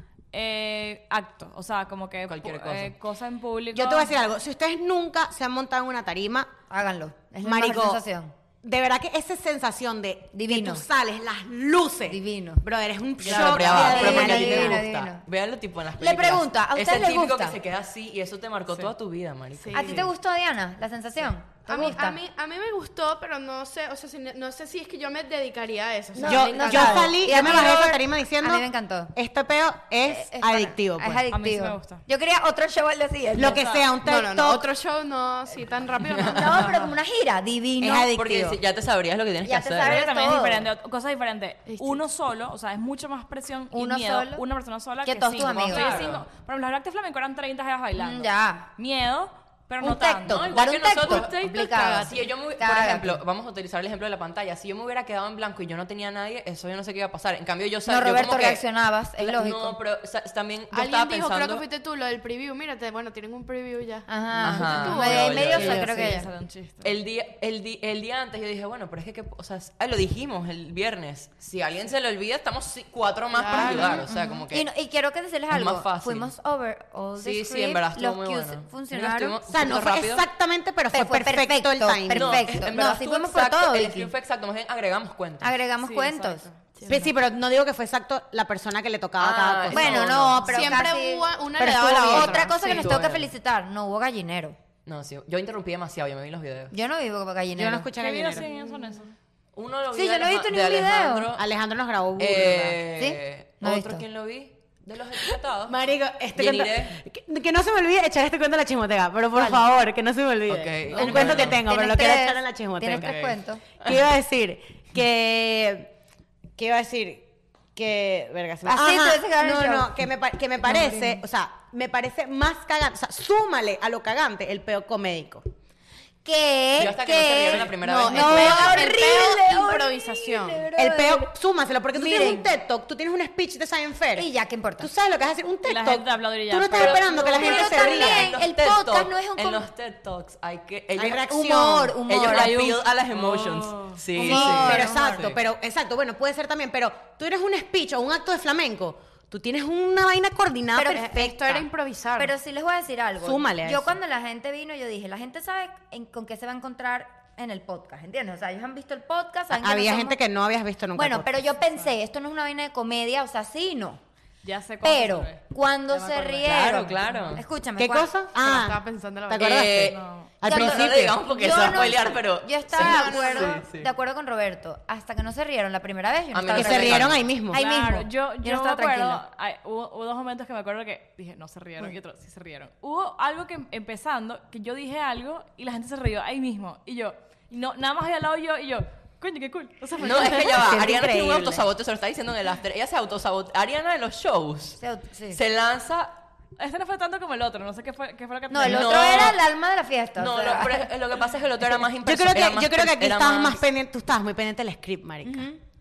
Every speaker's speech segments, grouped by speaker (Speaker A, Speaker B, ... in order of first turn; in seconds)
Speaker A: 0.3-4.2, 31.3-32.0, 33.5-33.9, 36.5-36.9, 39.8-50.5, 64.8-67.0, 85.8-87.0, 98.0-99.1, 135.6-137.6, 143.1-145.4, 164.4-167.4, 169.9-170.3, 177.5-190.7, 196.6-199.3
Speaker B: 2.3-3.0, 13.2-20.1, 36.0-36.9, 38.1-39.9, 45.7-46.3, 50.3-58.6, 59.2-61.6, 64.4-66.0, 66.8-74.7, 75.5-76.3, 77.2-80.3, 82.1-85.5, 89.2-90.5, 92.1-93.3, 94.9-96.8, 99.5-101.5, 102.2-105.8, 106.3-107.0, 110.5-111.6, 112.9-114.0, 126.8-129.0, 136.8-141.3, 142.0-145.4, 166.4-167.4, 169.4-173.9, 176.3-177.2, 190.0-196.2, 198.6-199.4, 200.2-203.6
Speaker C: 3.7-6.5, 7.4-8.0, 8.6-14.8, 26.2-31.2, 33.4-34.7, 37.8-38.6, 79.5-82.5, 86.9-90.3, 97.5-98.5, 101.4-102.8, 105.7-113.3, 113.8-115.9, 116.6-125.4, 127.9-128.7, 130.8-134.3, 134.8-138.3, 141.0-142.0, 144.2-151.6, 153.2-153.9, 159.5-161.6, 167.8-171.2, 176.5-177.6, 190.0-191.7, 202.0-205.5
Speaker D: 6.7-8.3, 10.3-10.8, 12.1-12.6, 13.2-15.2, 16.0-17.6, 19.7-22.2, 26.2-29.1, 30.0-33.6, 36.2-38.1, 39.4-40.7, 43.7-44.4, 45.0-46.1, 48.0-48.7, 49.8-53.2, 57.9-59.8, 64.1-66.3, 73.5-79.4, 80.9-84.1, 85.4-86.5, 89.7-94.6, 96.7-97.9, 99.9-101.3, 103.0-104.0, 109.4-109.6, 110.9-113.6, 118.7-119.9, 120.6-121.2, 126.2-131.3, 131.9-132.5, 134.2-134.9, 136.8-139.7, 141.3-142.8, 144.2-144.9, 150.8-151.3, 152.2-160.2, 160.9-164.0, 164.8-168.1, 170.5-179.2, 194.8-195.4, 198.5-200.9, 205.2-205.6
Speaker E: 19.6-20.1, 21.7-27.4, 34.0-36.7, 41.7-42.0, 50.9-52.2, 60.7-66.3, 73.3-74.0, 86.8-87.1, 90.5-92.9, 127.7-130.7, 150.8-152.3, 168.4-169.7, 172.8-173.7